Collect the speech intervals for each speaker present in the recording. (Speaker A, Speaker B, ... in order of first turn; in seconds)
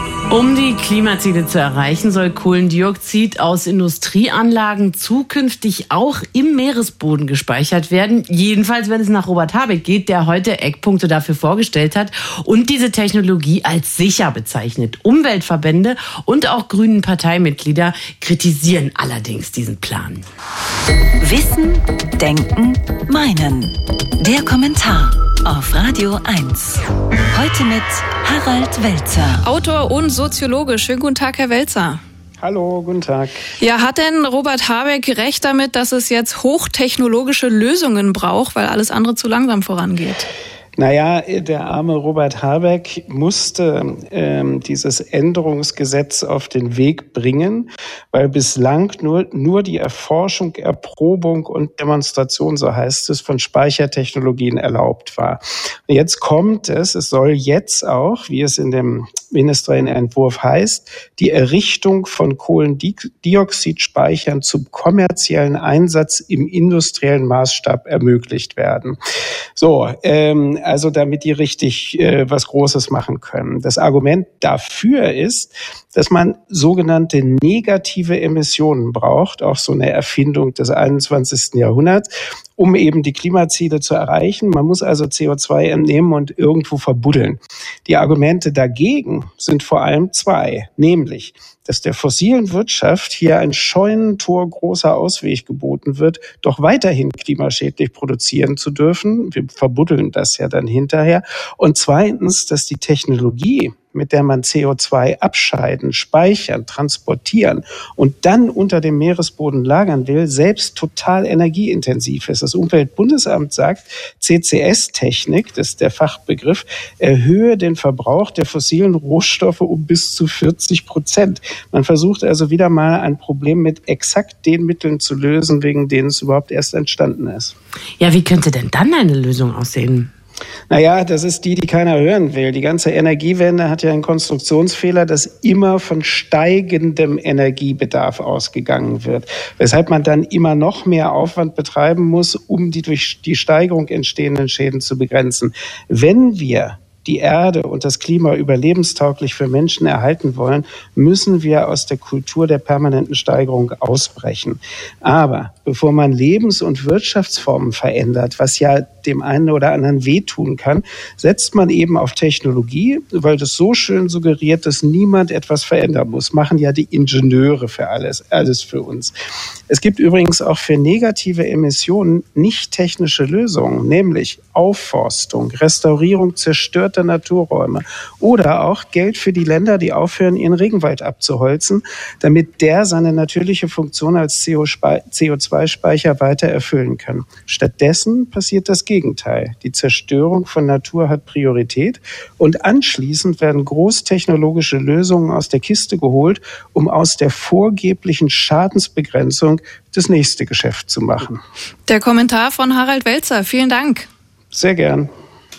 Speaker A: 0.3-20.2, 128.0-130.1
Speaker B: 21.2-29.4
Speaker C: 29.4-32.0, 33.6-40.3, 201.9-204.1
Speaker D: 32.4-33.5, 40.8-69.0, 69.5-127.5, 130.7-169.1, 169.7-201.4, 204.5-205.1